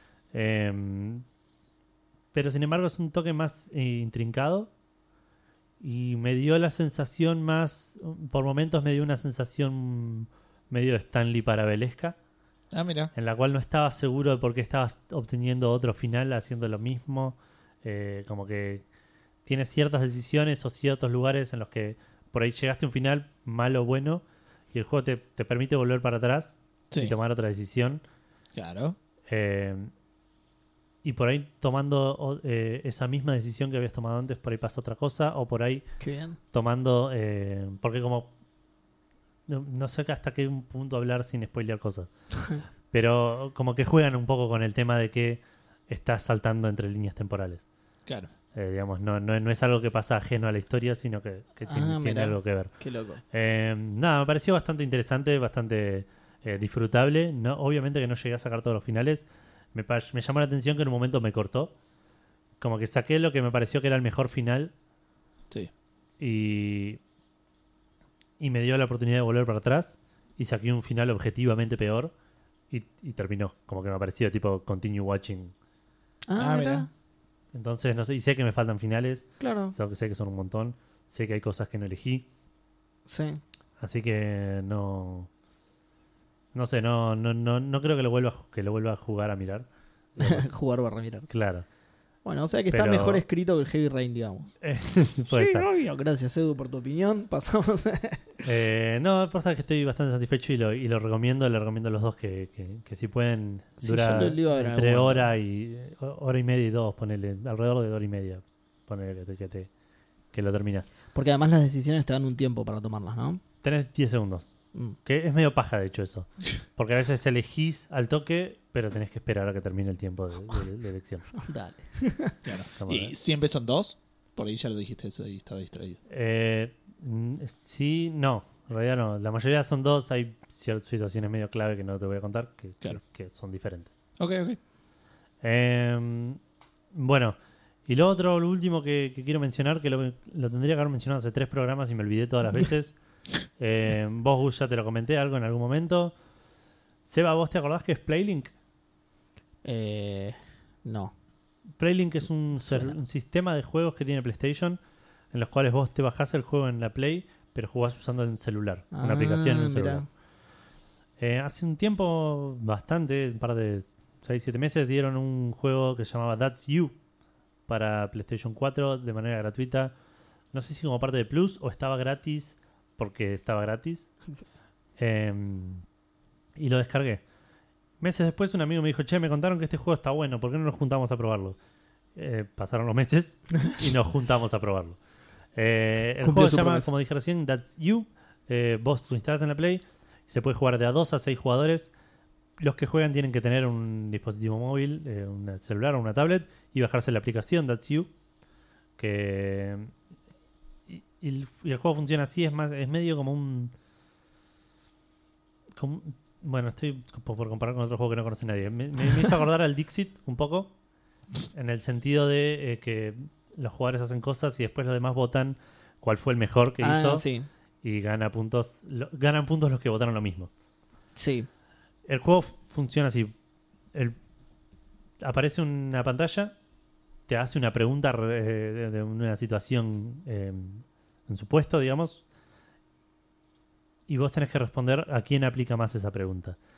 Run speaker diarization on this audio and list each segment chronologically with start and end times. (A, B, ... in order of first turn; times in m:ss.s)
0:00.3-0:01.2 A
0:02.3-0:04.7 A
0:05.8-0:12.2 A
0:12.7-0:13.1 B
0:13.1-0:18.8 A
0:19.4-0:28.0 A
0:28.5-0:29.0 B
0:29.3-0:29.9 A
0:31.0-0:35.8 A
0:36.0-0:36.4 C
0:36.5-0:38.3 A
0:39.5-0:42.1 A
0:42.9-0:47.6 A
0:48.5-0:52.7 A
0:51.7-0:53.2 C
0:53.3-1:01.7 A
1:02.6-1:04.7 A
1:06.2-1:07.0 A
1:08.4-1:12.1 A
1:12.7-1:15.5 A
1:16.3-1:16.9 C
1:16.4-1:16.9 B
1:17.5-1:22.2 A
1:19.4-1:19.7 C
1:23.1-1:23.4 C
1:23.8-1:25.3 A
1:26.5-1:30.5 A
1:30.2-1:31.3 C
1:31.3-1:31.6 A
1:32.2-1:34.5 C
1:32.7-1:33.2 A
1:34.6-1:35.7 A
1:35.3-1:38.3 C
1:38.4-1:49.7 A
1:43.8-1:45.2 C
1:50.3-1:50.9 A
1:51.1-1:53.4 C
1:53.6-1:54.5 A
1:55.0-2:01.3 A
2:01.3-2:02.4 C
2:02.4-2:06.0 B
2:02.8-2:03.1 A
2:06.1-2:14.0 A
2:14.2-2:14.6 B
2:15.4-2:16.4 A
2:16.9-2:17.4 A
2:17.9-2:23.0 A
2:23.6-2:26.1 A
2:27.1-2:28.5 A
2:29.6-2:31.1 C
2:31.8-2:34.8 A
2:32.6-2:33.0 C
2:35.3-2:40.0 A
2:38.9-2:40.0 C
2:41.2-2:46.9 A
2:47.7-2:49.9 A
2:50.5-2:54.1 A
2:55.0-2:55.8 A
2:56.6-2:57.2 A
2:58.0-3:01.6 A
3:02.2-3:05.0 A
3:05.5-3:11.9 A
3:06.2-3:06.9 C
3:12.6-3:18.1 A
3:19.0-3:19.9 A
3:20.9-3:23.7 A
3:25.8-3:30.7 A
3:31.5-3:37.2 A
3:36.8-3:37.5 C
3:37.8-3:40.5 A
3:41.2-3:41.5 C
3:42.1-3:43.3 A
3:45.2-3:46.5 A
3:47.3-3:52.2 A
3:54.1-3:56.6 A